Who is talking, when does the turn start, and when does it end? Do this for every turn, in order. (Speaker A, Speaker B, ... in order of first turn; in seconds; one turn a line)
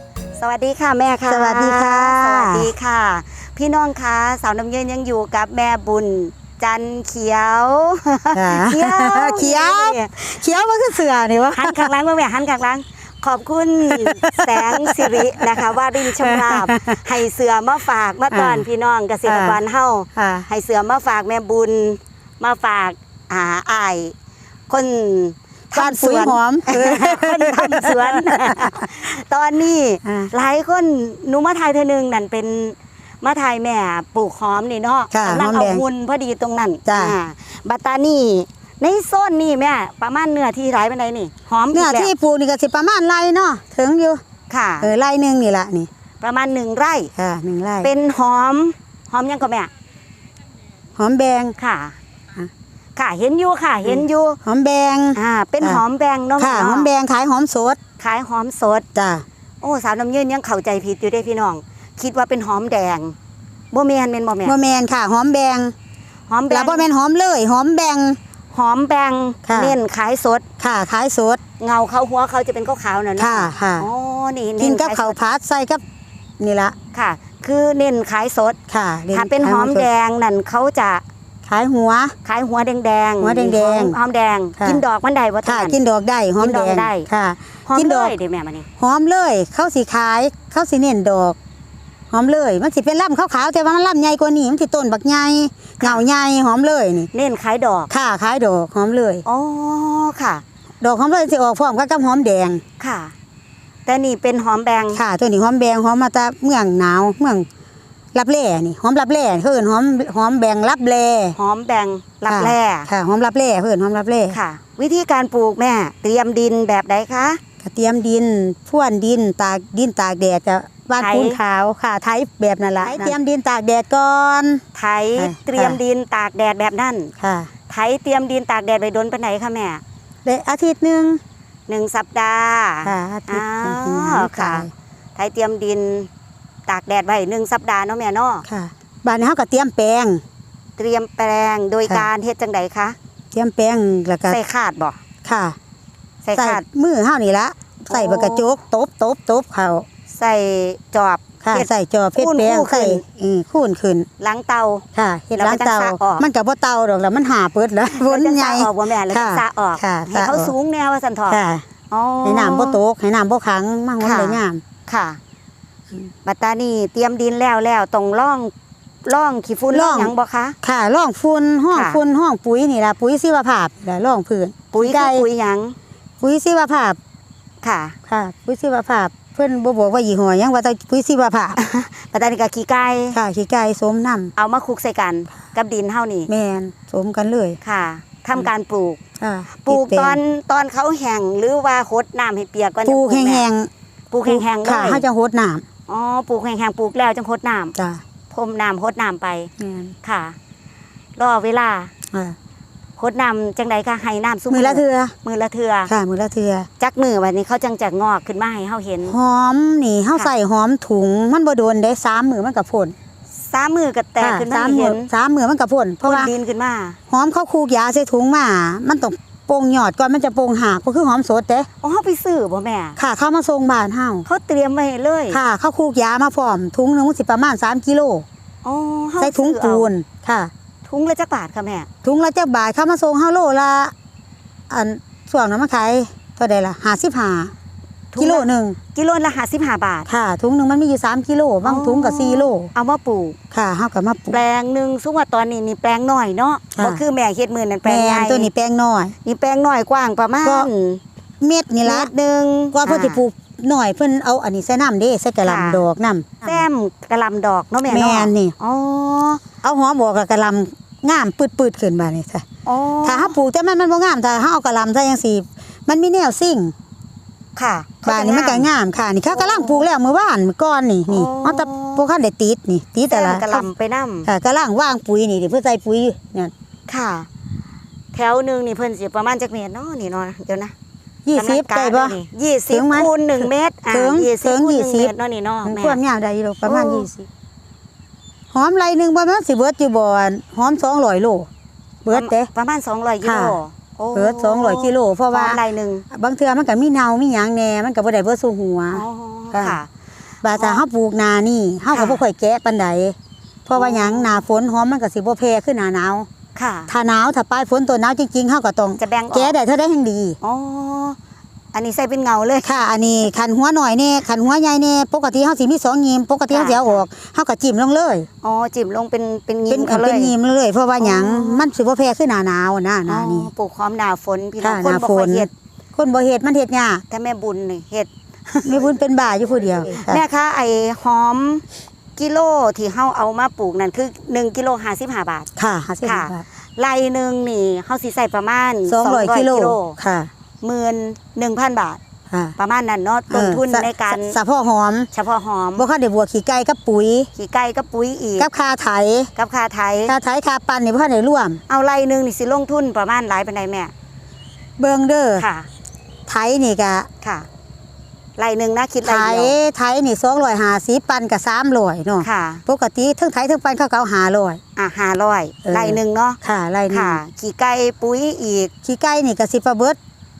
Speaker A: 0.4-10.1
Speaker B: 1.3-2.7
Speaker B: 8.3-11.9
Speaker A: 11.6-24.1
Speaker B: 13.9-17.0
Speaker B: 18.3-18.6
Speaker B: 19.3-19.6
Speaker B: 20.2-20.5
Speaker A: 24.7-42.1
Speaker B: 25.8-28.8
Speaker B: 30.1-30.3
Speaker B: 35.1-35.8
Speaker B: 36.9-37.1
Speaker B: 41.7-44.2
Speaker A: 44.5-44.9
Speaker B: 44.8-45.9
Speaker A: 46.2-47.1
Speaker B: 47.2-47.9
Speaker A: 47.8-49.7
Speaker B: 51.0-51.5
Speaker A: 51.6-52.0
Speaker A: 53.0-54.4
Speaker B: 53.8-55.8
Speaker A: 55.1-56.9
Speaker B: 56.4-57.8
Speaker A: 58.0-58.9
Speaker B: 59.0-59.2
Speaker A: 59.6-63.1
Speaker A: 63.7-64.5
Speaker B: 64.4-65.7
Speaker A: 66.3-66.9
Speaker B: 66.5-68.2
Speaker A: 68.5-70.5
Speaker B: 69.5-69.7
Speaker B: 70.6-71.4
Speaker A: 71.6-75.2
Speaker B: 73.2-73.9
Speaker B: 74.6-75.8
Speaker B: 76.4-76.8
Speaker A: 76.9-78.6
Speaker B: 78.7-79.9
Speaker A: 79.1-81.0
Speaker B: 81.5-82.2
Speaker A: 82.2-85.8
Speaker B: 83.2-84.0
Speaker B: 85.4-88.2
Speaker A: 86.4-87.1
Speaker A: 87.7-88.7
Speaker B: 88.8-91.4
Speaker B: 92.1-97.1
Speaker A: 97.1-97.9
Speaker B: 97.9-99.2
Speaker A: 99.2-100.4
Speaker B: 100.8-102.6
Speaker A: 102.8-103.1
Speaker A: 103.9-105.0
Speaker B: 104.9-107.5
Speaker B: 108.1-111.4
Speaker A: 111.3-112.9
Speaker B: 112.3-114.4
Speaker A: 114.3-117.4
Speaker B: 117.6-124.6
Speaker A: 121.0-121.4
Speaker A: 122.8-123.2
Speaker A: 124.8-127.1
Speaker B: 125.2-125.8
Speaker B: 127.2-127.5
Speaker A: 127.7-129.8
Speaker B: 130.2-131.2
Speaker A: 131.7-136.1
Speaker B: 132.8-134.7
Speaker A: 136.7-138.4
Speaker B: 138.5-140.2
Speaker A: 140.8-143.0
Speaker B: 143.3-144.4
Speaker A: 144.3-145.0
Speaker B: 145.2-145.6
Speaker A: 146.2-146.6
Speaker B: 146.3-149.8
Speaker A: 147.9-148.5
Speaker A: 150.1-153.0
Speaker B: 151.4-154.1
Speaker A: 154.2-154.8
Speaker B: 154.9-160.5
Speaker A: 155.3-156.3
Speaker A: 157.9-162.8
Speaker B: 161.3-161.6
Speaker B: 162.2-164.6
Speaker A: 164.0-165.2
Speaker A: 166.2-168.5
Speaker A: 169.1-170.6
Speaker B: 169.7-175.3
Speaker A: 171.7-172.0
Speaker A: 174.7-175.8
Speaker B: 176.2-177.0
Speaker A: 177.6-177.9
Speaker B: 178.1-181.6
Speaker A: 181.6-183.2
Speaker B: 183.1-184.3
Speaker A: 184.4-186.3
Speaker B: 186.3-187.6
Speaker A: 187.6-189.0
Speaker B: 189.2-190.2
Speaker A: 189.7-193.5
Speaker B: 192.9-193.7
Speaker A: 194.1-195.0
Speaker B: 194.3-195.6
Speaker A: 195.9-197.8
Speaker B: 197.8-198.0
Speaker A: 198.3-199.5
Speaker B: 199.6-199.9
Speaker A: 200.0-200.4
Speaker A: 201.2-201.9
Speaker A: 203.0-205.9
Speaker B: 204.5-205.1
Speaker B: 205.9-206.7
Speaker A: 206.8-209.2
Speaker B: 209.1-212.9
Speaker A: 213.4-215.1
Speaker B: 214.2-216.3
Speaker A: 216.0-217.0
Speaker B: 217.1-221.7
Speaker A: 221.8-223.0
Speaker B: 223.0-224.3
Speaker A: 224.3-225.4
Speaker B: 225.3-228.2
Speaker A: 228.6-229.9
Speaker B: 229.2-230.5
Speaker A: 230.8-231.9
Speaker B: 232.0-233.9
Speaker B: 234.7-237.5
Speaker A: 238.1-240.1
Speaker B: 238.2-238.8
Speaker B: 240.1-242.7
Speaker A: 241.6-243.4
Speaker B: 243.5-244.4
Speaker A: 244.3-248.5
Speaker B: 246.8-247.0
Speaker B: 247.8-249.2
Speaker A: 249.2-251.0
Speaker B: 250.4-250.7
Speaker B: 251.4-252.1
Speaker A: 251.8-253.2
Speaker B: 252.7-256.7
Speaker A: 255.4-255.8
Speaker A: 256.4-259.4
Speaker B: 257.9-258.5
Speaker B: 259.6-262.4
Speaker A: 262.7-263.4
Speaker B: 263.0-266.7
Speaker A: 267.6-268.7
Speaker B: 268.1-273.7
Speaker A: 269.2-269.9
Speaker A: 271.1-272.1
Speaker A: 273.1-274.3
Speaker B: 274.3-276.5
Speaker A: 276.9-277.3
Speaker A: 278.1-280.7
Speaker B: 281.3-282.2
Speaker A: 281.4-286.0
Speaker B: 282.7-285.1
Speaker B: 285.6-287.3
Speaker A: 286.6-287.1
Speaker B: 288.5-291.5
Speaker B: 292.1-292.5
Speaker A: 292.1-296.1
Speaker B: 293.2-293.6
Speaker B: 294.1-295.6
Speaker B: 296.1-299.8
Speaker A: 298.9-299.9
Speaker B: 300.4-303.1
Speaker A: 300.5-300.9
Speaker A: 301.9-302.2
Speaker B: 303.7-306.3
Speaker A: 303.8-304.4
Speaker A: 306.6-306.9
Speaker B: 306.9-310.4
Speaker A: 309.0-309.6
Speaker A: 310.4-311.2
Speaker A: 311.7-312.7
Speaker B: 312.6-318.3
Speaker A: 316.5-317.1
Speaker A: 318.4-320.3
Speaker B: 319.7-323.5
Speaker A: 321.0-321.7
Speaker A: 323.1-325.5
Speaker B: 324.6-327.0
Speaker A: 327.1-328.8
Speaker B: 328.6-330.2
Speaker A: 330.0-331.6
Speaker A: 332.2-335.5
Speaker B: 335.6-336.4
Speaker A: 336.0-340.0
Speaker B: 338.9-340.3
Speaker A: 340.6-342.0
Speaker A: 342.6-344.4
Speaker B: 343.3-345.1
Speaker A: 345.1-345.9
Speaker B: 345.8-347.3
Speaker A: 347.4-348.5
Speaker B: 348.4-349.3
Speaker A: 349.4-350.1
Speaker B: 350.1-351.6
Speaker A: 351.7-353.9
Speaker B: 354.8-355.4
Speaker A: 355.4-355.7
Speaker B: 356.3-357.1
Speaker A: 357.2-357.5
Speaker A: 358.4-359.6
Speaker B: 359.0-364.6
Speaker A: 362.2-362.6
Speaker A: 364.8-366.4
Speaker B: 365.6-367.2
Speaker A: 366.9-368.7
Speaker B: 368.8-370.0